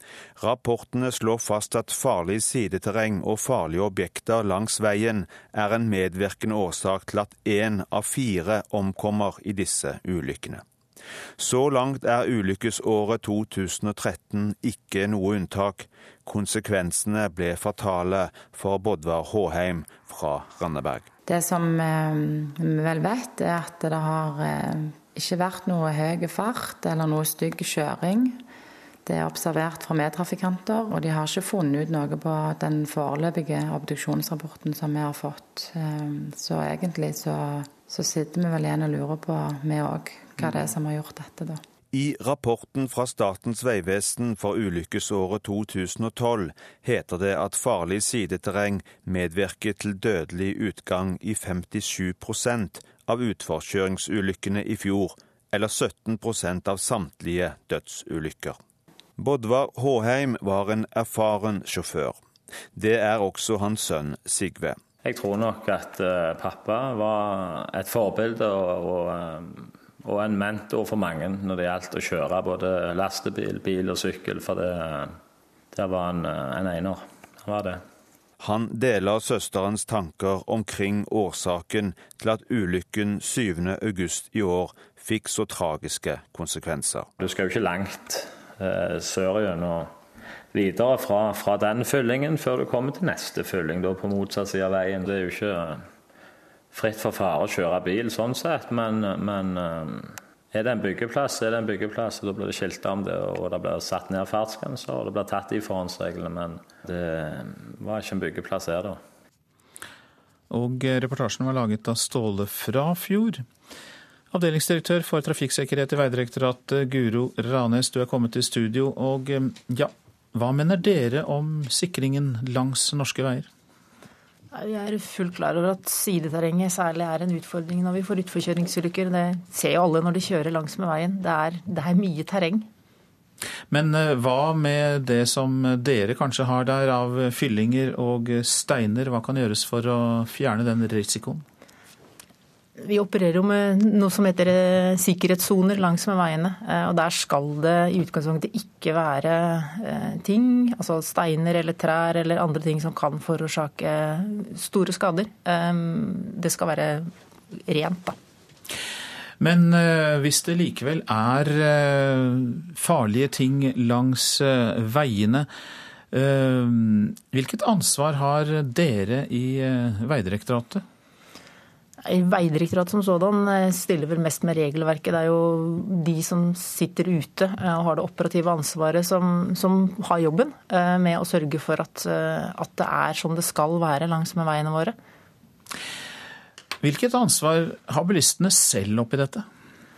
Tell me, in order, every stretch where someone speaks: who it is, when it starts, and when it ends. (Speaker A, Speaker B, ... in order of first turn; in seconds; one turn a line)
Speaker A: 0.4-10.6
Speaker A: 11.4-21.1
Speaker B: 21.3-28.3
Speaker B: 29.1-37.3
Speaker B: 37.9-41.5
Speaker A: 41.9-58.6
Speaker A: 59.2-62.2
Speaker A: 62.7-64.8
Speaker C: 65.0-69.5
Speaker C: 70.0-75.1
Speaker C: 75.7-77.8
Speaker A: 78.4-87.1
Speaker C: 87.2-89.9
Speaker C: 90.5-95.8
Speaker C: 96.7-109.0
Speaker D: 110.5-113.4
Speaker D: 114.3-123.5
Speaker E: 124.5-132.7
Speaker D: 133.7-141.4
Speaker E: 142.8-158.2
Speaker D: 159.4-165.5
Speaker D: 166.1-170.8
Speaker E: 172.0-184.9
Speaker D: 186.8-189.5